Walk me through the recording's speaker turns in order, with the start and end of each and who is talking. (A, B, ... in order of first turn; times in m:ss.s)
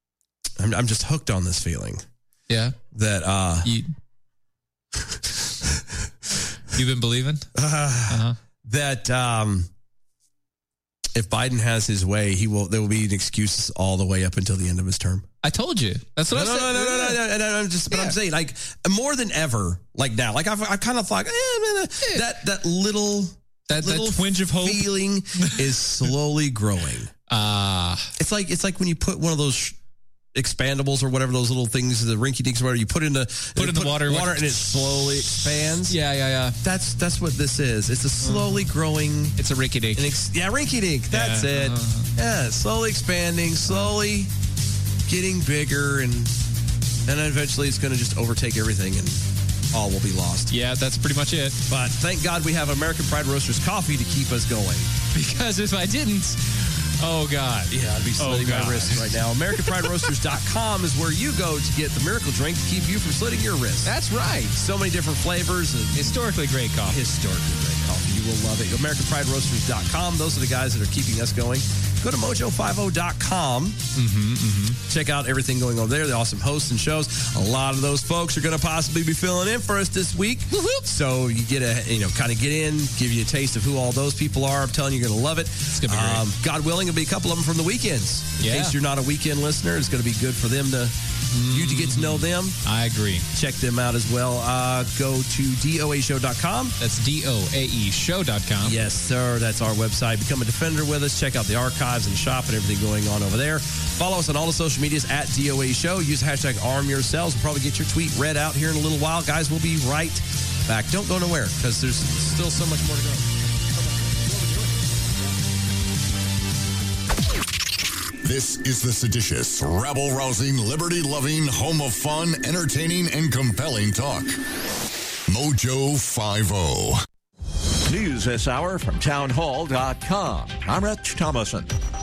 0:00.6-0:02.0 A
0:02.5-0:02.8 B
0:02.9-0:03.7 A
0:03.6-0:03.9 B
0:06.7-0:07.5 B
0:07.6-0:09.7 A
0:08.1-0:08.4 B
0:11.1-0:15.3 A
0:15.4-0:17.2 B
0:16.3-0:27.1 A
0:17.9-0:18.2 B
0:23.7-0:25.7 B
0:27.3-0:28.1 B
0:28.2-0:29.8 A
0:30.3-0:36.0 A
0:33.6-0:36.6 B
0:36.6-0:39.4 A
0:38.2-0:38.7 B
0:39.4-0:40.2 B
0:40.0-0:44.3 A
0:41.1-0:42.1 B
0:45.1-0:46.4 A
0:47.1-0:50.5 A
0:50.5-0:51.6 B
0:51.7-0:54.9 A
0:55.1-1:00.1 B
0:57.7-1:03.9 A
1:03.8-1:04.6 B
1:04.5-1:06.2 A
1:06.0-1:07.0 B
1:06.8-1:13.8 A
1:13.9-1:14.8 B
1:14.9-1:31.0 A
1:20.5-1:20.9 B
1:25.7-1:26.3 B
1:28.4-1:28.8 B
1:31.3-1:33.3 B
1:31.5-1:32.6 A
1:33.3-1:36.8 A
1:36.8-1:38.8 B
1:38.6-1:53.3 A
1:58.2-2:04.4 C
2:05.3-2:07.0 C
2:07.9-2:11.7 D